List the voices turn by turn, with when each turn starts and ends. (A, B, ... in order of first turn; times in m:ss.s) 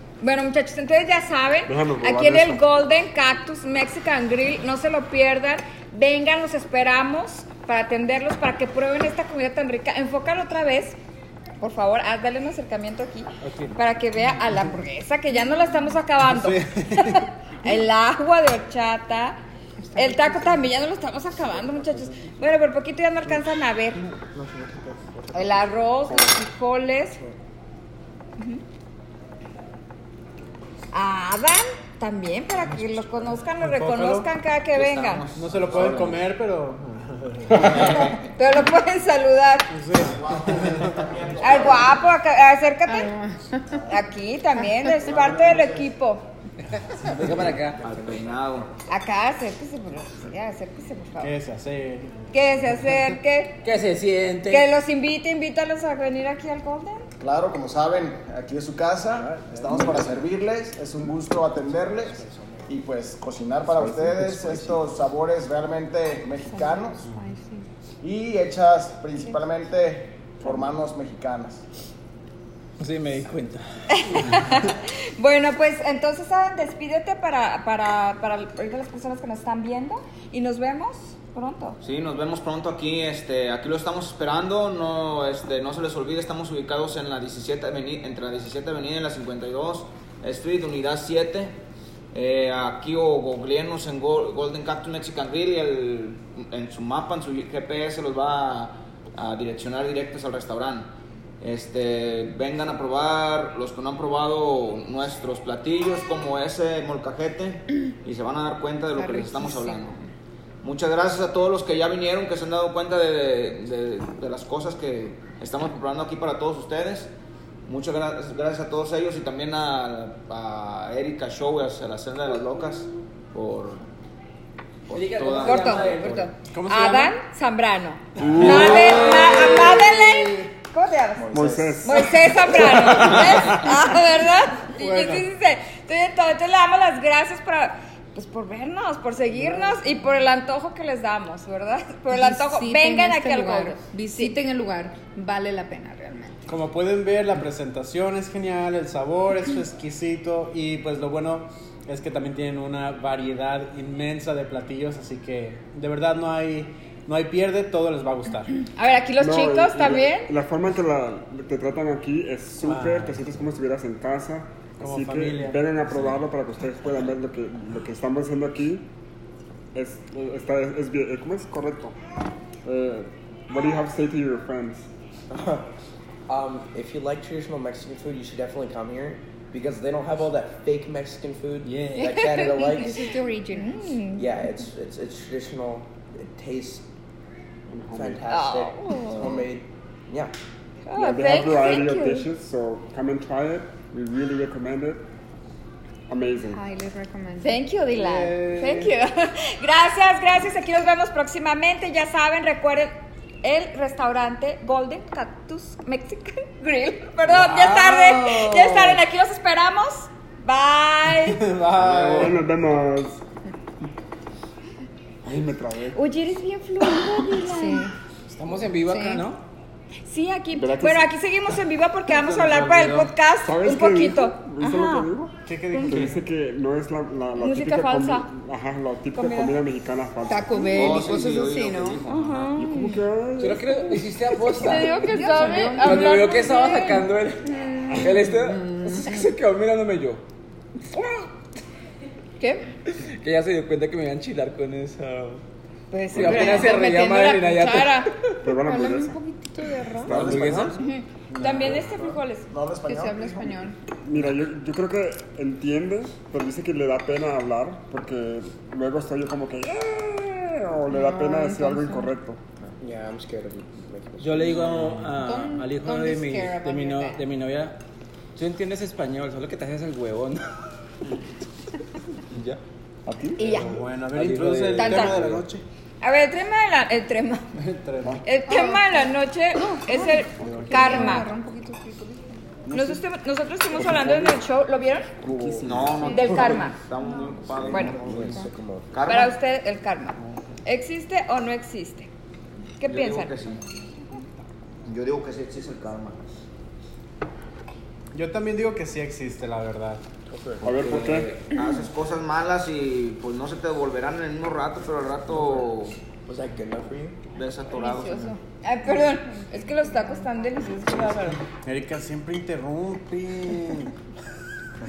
0:00.2-0:11.0 A
0:01.6-0:02.6 B
0:11.6-0:19.4 A
0:13.4-0:13.8 C
0:16.2-0:17.1 C
0:19.8-0:20.6 D
0:19.9-0:24.0 A
0:25.3-0:27.2 A
0:26.0-0:26.4 B
0:30.9-0:35.2 A
0:33.6-0:34.3 E
0:34.7-0:36.2 F
0:35.3-0:38.0 E
0:38.3-0:39.7 A
0:39.7-0:41.0 E
0:39.9-0:42.0 G
0:41.1-0:41.5 F
0:41.4-0:43.1 A
0:42.8-0:43.8 D
0:43.9-0:46.2 A
0:45.0-0:45.6 G
0:46.8-0:47.9 C
0:47.8-0:48.7 F
0:48.9-0:51.3 A
0:51.2-0:52.3 E
0:52.3-0:53.6 A
0:53.6-0:54.7 C
0:54.5-0:57.0 A
0:57.2-1:07.0 G
0:59.2-1:00.0 E
1:06.5-1:07.7 D
1:08.0-1:11.6 G
1:12.8-1:14.4 C
1:13.9-1:21.8 A
1:21.8-1:31.6 F
1:32.1-1:40.9 F
1:41.4-1:50.0 F
1:49.0-1:50.1 D
1:50.6-1:57.1 F
1:57.6-2:03.8 F
2:04.9-2:06.2 F
2:04.9-2:06.3 C
2:05.4-2:24.4 A
2:06.5-2:07.2 E
2:08.2-2:09.2 B
2:08.4-2:10.1 C
2:11.2-2:12.0 G
2:11.3-2:13.9 B
2:14.8-2:15.3 E
2:22.1-2:26.4 D
2:26.5-2:38.6 E
2:38.8-2:40.3 A
2:39.2-2:48.9 B
2:42.6-2:43.2 E
2:44.8-2:46.2 E
2:49.7-2:52.0 B
2:52.6-2:54.9 B
2:55.3-2:55.6 H
2:56.3-3:02.9 H
3:01.6-3:02.2 C
3:02.0-3:04.0 D
3:03.5-3:04.3 A
3:04.1-3:06.8 H
3:07.7-3:08.3 B
3:07.9-3:10.3 H
3:08.3-3:09.5 A
3:10.8-3:12.3 A
3:10.9-3:15.0 B
3:16.1-3:16.6 B
3:16.4-3:17.6 D
3:17.4-3:22.9 A
3:17.9-3:18.9 C
3:23.4-3:31.5 A
3:27.2-3:29.0 C
3:31.5-3:32.4 C
3:31.7-3:33.2 B
3:35.2-3:36.0 B
3:35.9-3:37.9 A
3:37.3-3:37.9 D
3:38.3-3:39.4 C
3:38.8-3:39.2 D
3:40.0-3:45.1 A
3:40.5-3:41.3 B
3:42.1-3:43.1 C
3:43.4-3:50.9 B
3:45.4-3:46.2 E
3:45.7-3:46.1 A
3:47.4-3:48.3 A
3:49.1-3:49.6 A
3:50.3-3:52.0 D
3:50.6-3:52.5 F
3:52.0-3:53.0 A
3:52.5-3:53.9 B
3:53.4-4:00.2 C
3:54.3-3:56.6 D
3:54.5-3:57.1 A
3:57.4-3:59.2 D
4:02.4-4:02.6 A
4:02.9-4:05.4 C
4:05.9-4:08.2 A
4:06.1-4:08.1 C
4:06.2-4:06.5 B
4:08.4-4:09.2 B
4:08.5-4:10.3 D
4:10.0-4:10.8 B
4:10.0-4:10.8 C
4:10.7-4:12.5 A
4:11.3-4:11.9 E
4:12.5-4:13.5 G
4:12.8-4:13.8 D
4:14.0-4:22.4 B
4:20.9-4:22.1 D
4:22.8-4:24.7 H
4:24.2-4:27.8 C
4:25.1-4:27.2 D
4:28.3-4:30.6 C
4:32.3-4:32.6 C
4:33.0-4:33.6 B
4:33.4-4:33.7 A
4:33.5-4:35.4 C
4:33.6-4:35.6 E
4:34.8-4:35.2 A
4:36.0-4:37.5 A
4:37.5-4:38.2 E
4:38.2-4:41.3 A
4:38.5-4:42.5 D
4:40.4-4:41.1 B
4:40.4-4:41.2 E
4:42.6-4:43.0 B
4:42.7-4:45.1 A
4:43.7-4:44.4 B
4:45.2-4:46.6 B
4:45.6-4:49.4 F
4:46.0-4:46.5 D
4:46.1-4:46.8 A
4:47.5-4:49.1 H
4:47.7-4:48.1 A
4:47.8-4:48.4 B
4:48.1-4:48.5 D
4:49.0-4:52.1 A
4:52.8-4:53.3 A
4:52.8-4:53.6 F
4:54.8-4:56.2 F
4:58.1-5:00.0 E
5:00.3-5:00.7 H
5:00.6-5:06.0 F
5:00.6-5:01.3 B
5:05.3-5:05.6 H
5:06.2-5:07.2 H
5:07.3-5:08.4 F
5:07.7-5:11.4 A
5:09.3-5:10.5 D
5:11.6-5:13.9 E